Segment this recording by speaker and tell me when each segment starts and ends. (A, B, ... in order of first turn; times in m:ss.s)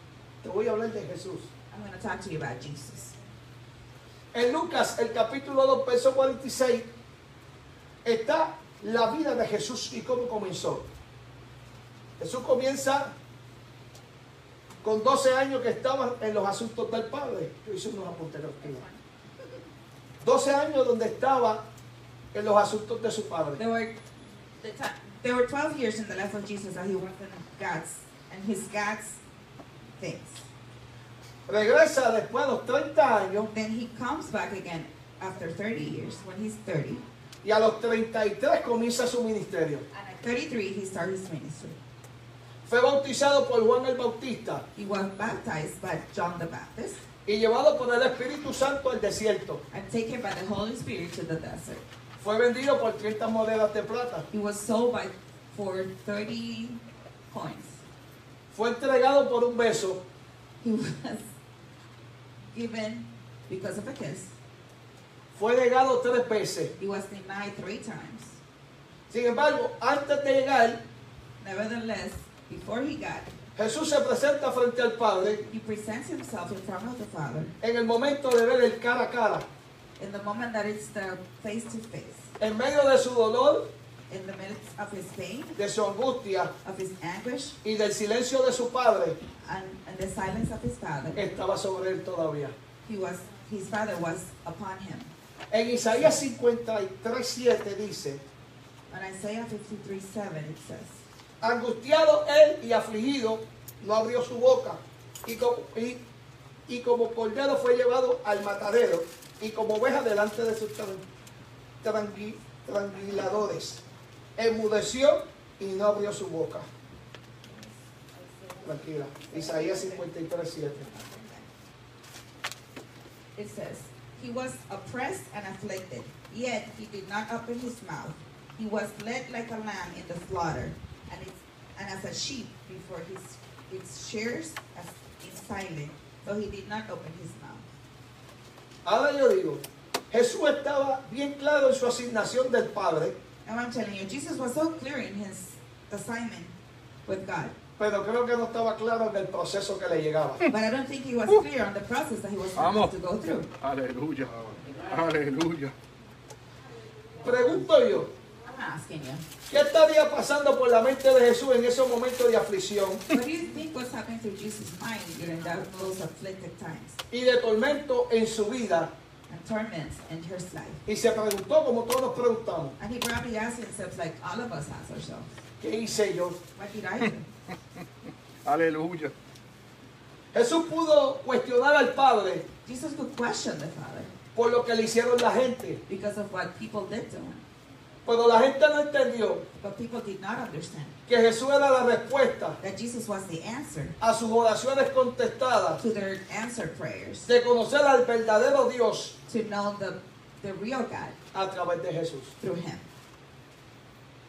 0:00.4-0:01.5 A
0:01.7-0:03.2 B
0:04.3-0:06.9 A
0:08.0-0:10.9 A
0:12.2-0:13.1 A
0:14.8-0:18.8 A
0:20.2-0:21.6 A
0:22.3-0:23.6 A
0:23.6-0:24.0 B
0:24.6-0:29.2 B
0:30.0-0:30.4 B
0:31.5-0:33.5 A
0:33.5-0:37.0 B
0:37.4-0:39.8 A
0:39.9-0:41.8 B
0:42.7-0:44.6 A
0:44.8-0:47.0 B
0:47.3-0:49.6 A
0:49.7-0:51.8 B
0:52.2-0:54.3 A
0:54.3-0:57.8 B
0:58.5-1:00.0 A
1:00.6-1:01.3 B
1:02.5-1:04.3 B
1:05.4-1:06.7 A
1:06.8-1:08.4 B
1:09.1-1:10.8 A
1:11.4-1:13.3 B
1:13.6-1:15.5 A
1:15.5-1:17.5 B
1:17.6-1:19.5 A
1:20.0-1:22.3 B
1:22.4-1:23.7 A
1:24.1-1:25.6 B
1:25.6-1:26.5 A
1:26.6-1:27.6 B
1:27.6-1:29.2 A
1:29.4-1:31.2 B
1:31.2-1:32.6 A
1:32.8-1:35.1 B
1:35.5-1:38.2 A
1:38.9-1:41.0 B
1:41.4-1:46.0 A
1:46.7-1:51.0 A
1:51.8-1:53.8 A
1:54.4-1:56.7 A
1:58.6-2:00.9 A
1:59.2-1:59.9 B
2:00.9-2:01.5 B
2:03.4-2:17.6 B
2:18.8-2:23.2 A
2:23.5-2:26.5 B
2:27.1-2:27.6 B
2:27.8-2:30.5 A
2:30.5-2:33.5 B
2:32.6-2:32.9 C
2:33.6-2:35.7 C
2:37.2-2:38.1 A
2:38.5-2:39.2 B
2:39.5-2:43.0 A
2:43.1-2:47.0 B
2:47.1-2:48.9 A
2:49.3-2:50.8 B
2:50.9-2:52.8 A
2:52.8-2:55.3 B
2:55.6-2:56.4 A
2:56.6-2:57.3 B
2:58.4-2:59.1 C
3:00.3-3:02.4 A
3:02.6-3:04.1 B
3:04.4-3:05.8 A
3:05.9-3:07.4 B
3:08.1-3:09.4 A
3:09.6-3:11.0 B
3:11.1-3:12.6 A
3:12.6-3:14.0 B
3:14.0-3:15.8 A
3:15.8-3:17.3 B
3:17.3-3:19.2 A
3:19.3-3:21.2 B
3:21.3-3:22.3 A
3:22.4-3:22.8 B